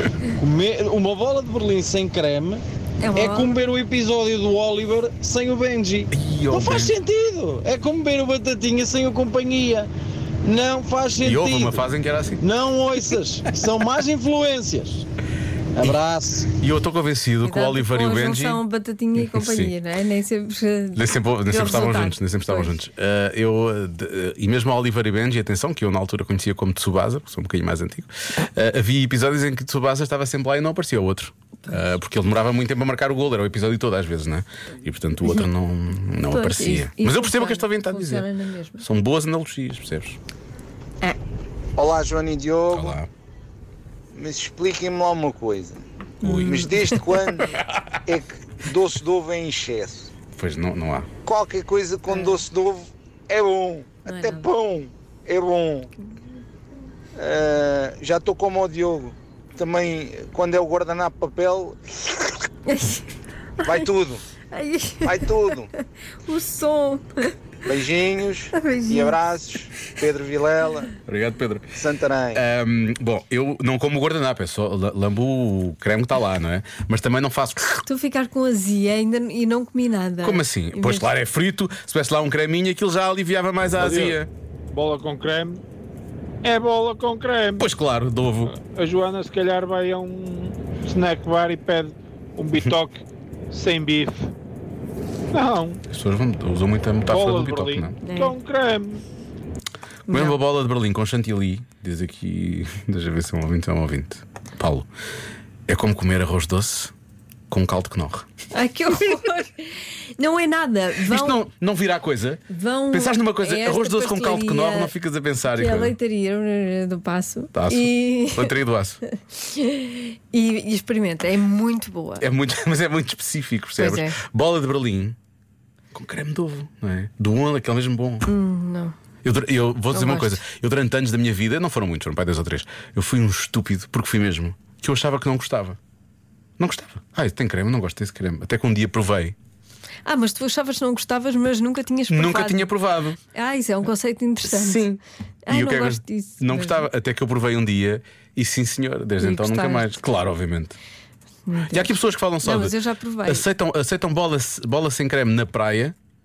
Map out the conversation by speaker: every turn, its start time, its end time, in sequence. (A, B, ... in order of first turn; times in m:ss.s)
0:00.4-0:09.9 A
0:03.0-0:03.6 B
0:06.1-0:06.9 C
0:10.4-0:11.8 A
0:11.2-0:12.4 C
0:12.4-0:15.0 A
0:15.8-0:16.5 A
0:16.5-0:18.6 C
0:17.4-0:22.7 B
0:19.2-0:19.7 C
0:21.0-0:38.3 C
0:36.3-0:38.8 B
0:38.8-0:40.2 C
0:41.8-0:43.0 D
0:42.7-0:43.1 C
0:44.1-0:45.8 D
0:46.2-0:46.8 C
0:46.2-0:47.0 B
0:46.4-0:47.5 D
0:48.0-0:50.1 D
0:50.4-0:51.1 C
0:51.2-0:55.9 D
0:52.1-0:52.4 B
0:54.0-0:54.5 B
0:57.2-1:01.8 D
1:02.7-1:03.0 B
1:03.6-1:04.2 D
1:04.5-1:05.7 B
1:05.0-1:05.7 D
1:06.2-1:07.3 B
1:07.6-1:10.9 D
1:08.5-1:09.2 B
1:11.0-1:11.7 C
1:11.8-1:12.4 D
1:12.3-1:17.8 C
1:17.8-1:21.1 B
1:20.2-1:24.3 C
1:23.8-1:24.2 E
1:24.7-1:25.6 E
1:26.4-1:27.7 E
1:27.6-1:28.5 C
1:28.4-1:34.3 E
1:35.3-1:35.8 E
1:35.9-1:38.0 C
1:37.1-1:39.0 E
1:38.0-1:38.4 B
1:40.1-1:40.4 B
1:40.1-1:44.9 C
1:45.7-1:46.9 C
1:47.5-1:48.3 C
1:48.5-1:51.4 B
1:51.0-1:56.0 C
1:52.5-1:54.9 B
1:55.5-1:58.5 B
1:57.5-1:59.0 C
1:59.3-2:02.3 B
2:02.2-2:05.2 C
2:03.8-2:04.2 B
2:05.9-2:08.3 C
2:08.2-2:08.9 B
2:09.2-2:15.8 C
2:09.9-2:10.4 B
2:16.6-2:19.4 C
2:20.0-2:22.7 B
2:22.1-2:23.2 C
2:23.3-2:24.9 B
2:24.4-2:30.8 C
2:25.4-2:26.9 B
2:29.2-2:29.9 B
2:31.5-2:33.4 B
2:31.7-2:32.7 C
2:33.2-2:35.9 C